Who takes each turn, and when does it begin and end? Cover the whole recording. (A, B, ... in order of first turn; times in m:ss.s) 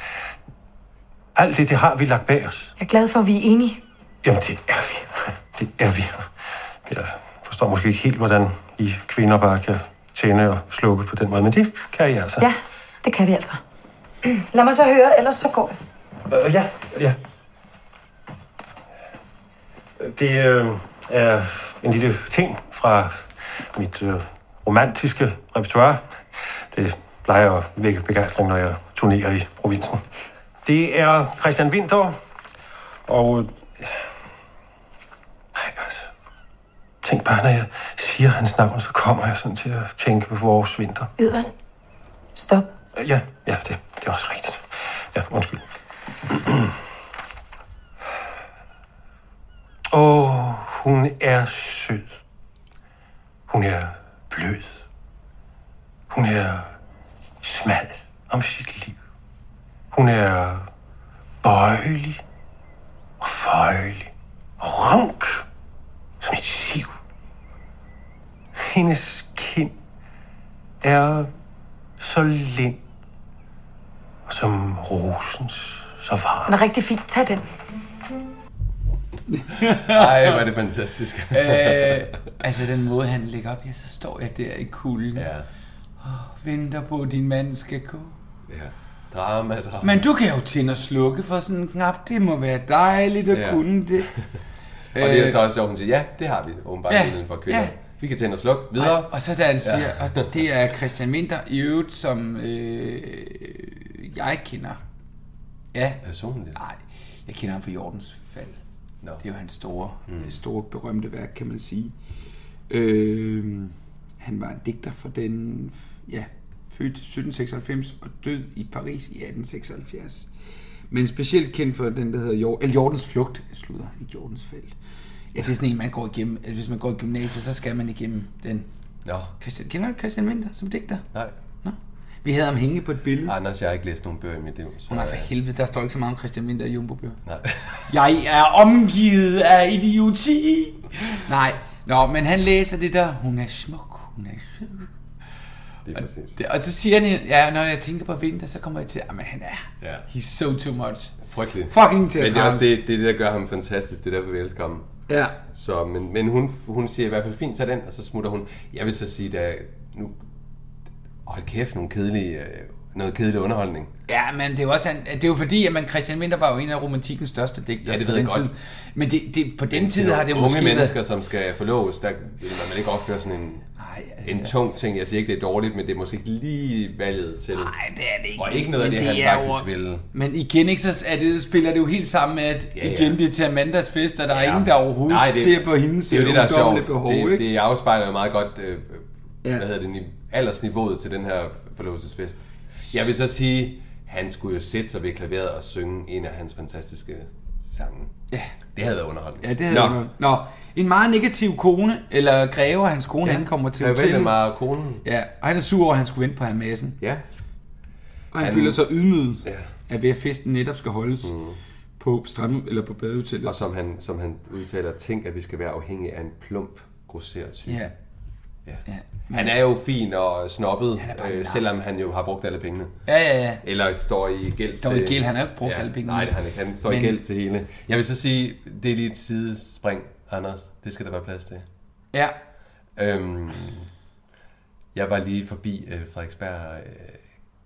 0:01.3-0:02.7 A
0:02.8-0:03.8 B
0:04.2-0:06.3 A
0:06.9-0:12.5 A
0:12.4-0:13.6 B
0:14.4-0:15.7 B
0:16.3-0:17.2 A
0:20.0-0:30.0 A
0:30.6-0:32.2 A
0:33.1-0:34.0 A
0:35.6-0:36.1 A
0:37.0-0:41.1 A
0:41.2-0:41.5 B
0:42.4-0:42.6 B
0:43.0-0:45.6 A
0:46.3-0:46.8 A
0:49.9-0:52.1 A
0:53.5-0:54.7 A
0:56.1-0:56.7 A
0:57.4-0:59.0 A
0:59.9-1:00.7 A
1:01.4-1:02.2 A
1:03.2-1:05.4 A
1:06.2-1:06.9 A
1:08.6-1:09.7 A
1:10.8-1:11.3 A
1:12.0-1:12.8 A
1:14.3-1:16.5 A
1:16.5-1:17.4 B
1:19.3-1:20.4 C
1:19.6-1:22.1 D
1:21.3-1:25.3 C
1:25.1-1:25.5 D
1:26.0-1:28.2 C
1:28.5-1:30.0 D
1:29.8-1:34.1 C
1:33.3-1:34.2 D
1:34.9-1:35.4 C
1:35.0-1:40.4 D
1:36.9-1:37.8 C
1:38.8-1:44.8 C
1:45.7-1:46.0 C
1:46.0-1:46.6 D
1:46.6-1:48.6 C
1:49.2-1:52.0 C
1:50.1-1:50.3 D
1:52.7-2:00.3 C
2:00.9-2:04.7 C
2:05.3-2:08.7 C
2:09.0-2:09.3 D
2:09.4-2:11.0 C
2:11.6-2:13.3 C
2:13.2-2:15.3 D
2:14.9-2:17.2 C
2:17.2-2:17.9 D
2:17.9-2:24.9 C
2:25.8-2:26.4 D
2:26.0-2:32.7 C
2:29.8-2:30.0 D
2:31.2-2:34.9 D
2:35.1-2:35.4 C
2:35.5-2:40.2 D
2:41.2-2:43.9 D
2:44.1-2:51.0 C
2:47.8-2:48.5 D
2:49.7-2:53.7 D
2:53.8-2:54.5 C
2:54.2-2:57.7 D
2:57.6-3:07.4 C
2:58.4-3:00.0 D
3:02.7-3:03.2 D
3:04.3-3:18.1 D
3:18.7-3:20.0 D
3:19.4-3:24.4 C
3:23.2-3:25.0 D
3:25.0-3:27.0 C
3:28.3-3:31.3 C
3:28.4-3:28.8 D
3:29.4-3:29.7 D
3:31.2-3:31.6 D
3:32.0-3:33.5 C
3:33.4-3:37.9 D
3:37.7-3:37.9 C
3:38.6-3:43.0 D
3:38.9-3:39.6 C
3:41.0-3:41.6 C
3:43.1-3:43.6 C
3:43.6-3:51.6 D
3:44.8-3:47.2 C
3:53.0-3:53.9 D
3:54.9-3:57.2 D